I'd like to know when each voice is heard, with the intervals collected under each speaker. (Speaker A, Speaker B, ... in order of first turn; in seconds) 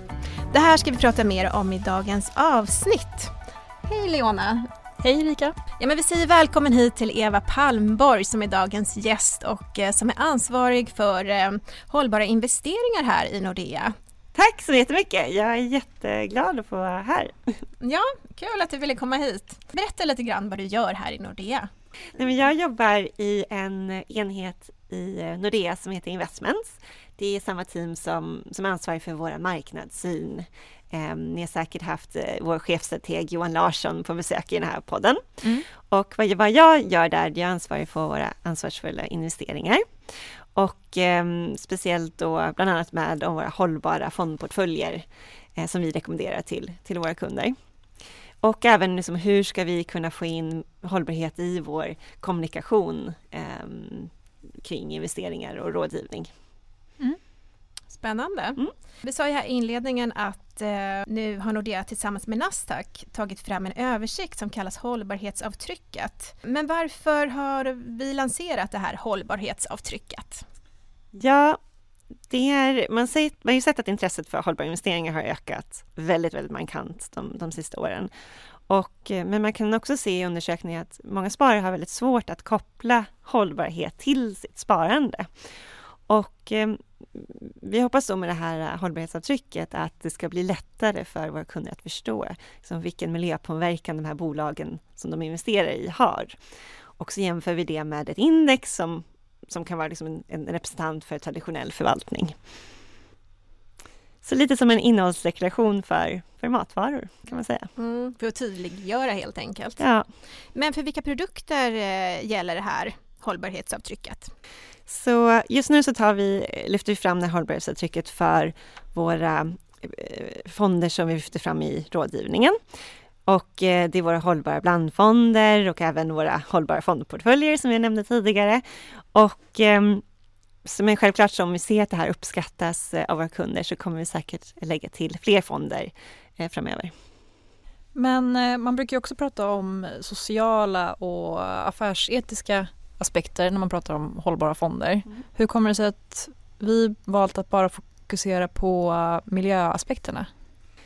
Speaker A: 0.5-4.7, 5.8-13.9, 17.8-21.7, 57.9-70.4, 107.8-109.8, 110.5-114.3
Speaker B: 5.0-5.5, 137.9-150.3
Speaker C: 14.3-17.5, 22.1-39.8, 40.5-45.0, 45.6-47.5, 48.4-54.1, 54.6-56.3, 71.2-71.6, 72.3-78.1, 78.7-85.3, 86.1-96.3, 97.0-102.3, 104.2-107.7, 109.8-110.0, 114.9-122.5, 123.3-128.6, 129.1-130.0, 130.6-136.9